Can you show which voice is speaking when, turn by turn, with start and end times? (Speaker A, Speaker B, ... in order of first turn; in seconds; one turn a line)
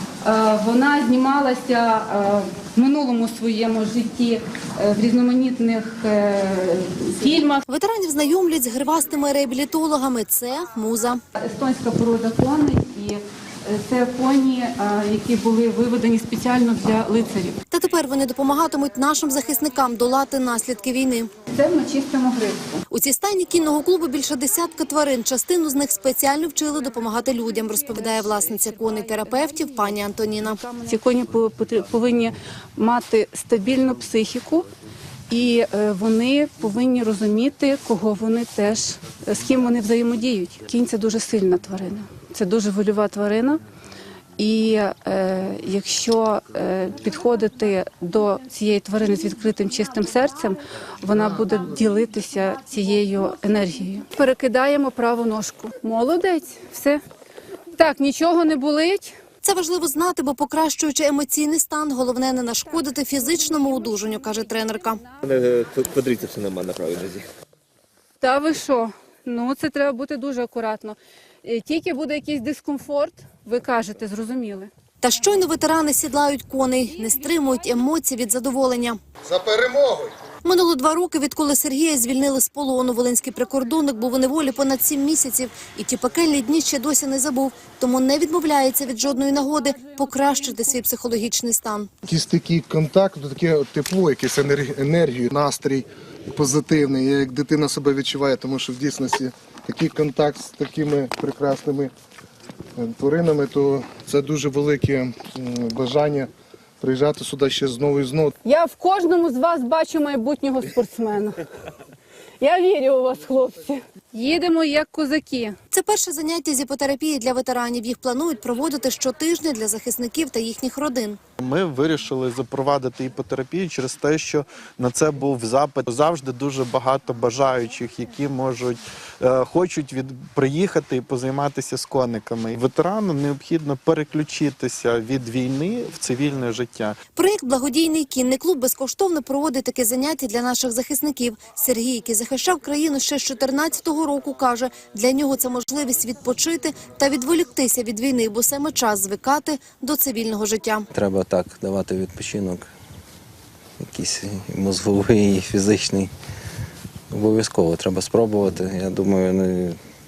Speaker A: 0.2-7.6
Speaker B: 7.7-11.2
Speaker A: 11.4-17.6
Speaker B: 17.7-21.3
Speaker A: 21.4-22.8
Speaker B: 22.9-30.8
Speaker A: 27.3-34.7
Speaker A: 35.3-43.6
Speaker A: 44.4-57.0
Speaker A: 57.7-59.1
Speaker B: 59.4-65.0
Speaker C: 65.2-67.2
Speaker A: 68.2-74.7
Speaker B: 75.0-79.0
Speaker A: 76.9-77.6
Speaker D: 79.3-80.1
Speaker B: 80.4-91.9
Speaker D: 92.0-101.9
Speaker D: 102.8-106.3
Speaker D: 106.8-108.3
Speaker A: 108.4-111.4
Speaker A: 112.4-115.6
Speaker B: 115.7-121.2
Speaker E: 121.4-137.0
Speaker B: 137.2-150.9
Speaker F: 150.9-152.7
Speaker F: 153.8-156.1
Speaker F: 157.1-159.8